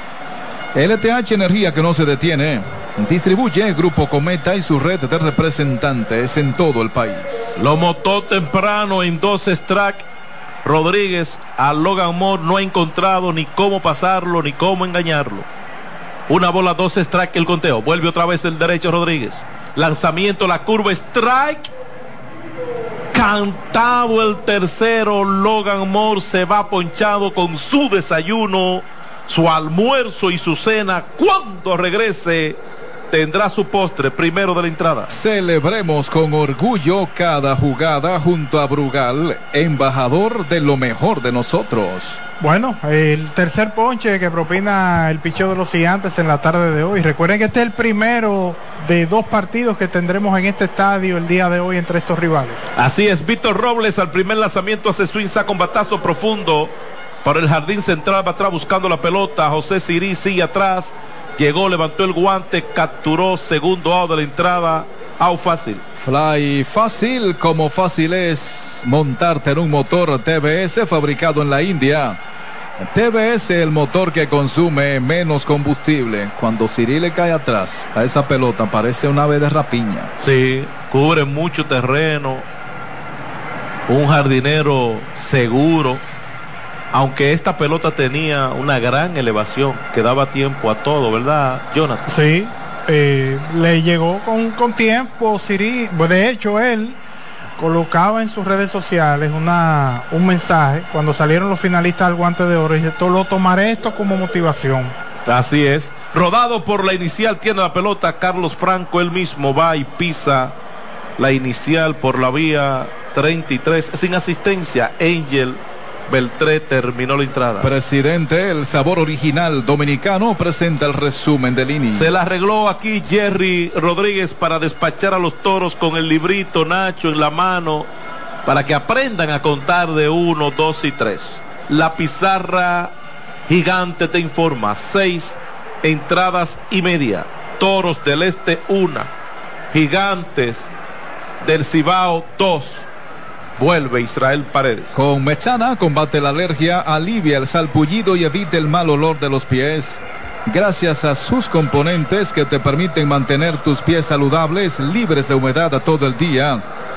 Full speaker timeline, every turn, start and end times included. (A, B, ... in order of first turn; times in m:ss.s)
0:00.7-0:07.6 A
0:07.6-0:10.0 B
0:10.6-0:15.5 B
0:16.3-0:21.7 B
0:23.1-0:32.6 B
0:33.1-0:35.1 B
0:35.1-0:42.2 A
0:42.4-0:52.6 C
0:52.8-0:56.7 B
0:57.2-1:05.8 B
1:06.0-1:12.2 A
1:12.8-1:20.1 A
1:20.2-1:22.5 B
1:23.9-1:26.0 B
1:26.9-1:32.0 B
1:32.1-1:37.0 C
1:37.6-1:45.0 C
1:45.3-1:50.6 B
1:51.2-1:57.7 B
1:57.6-2:02.1 A
2:02.0-2:07.9 B
2:08.5-2:12.9 B
2:13.5-2:19.1 B
2:19.7-2:20.7 B
2:21.4-2:22.8 B
2:23.6-2:25.0 B
2:25.0-2:36.6 A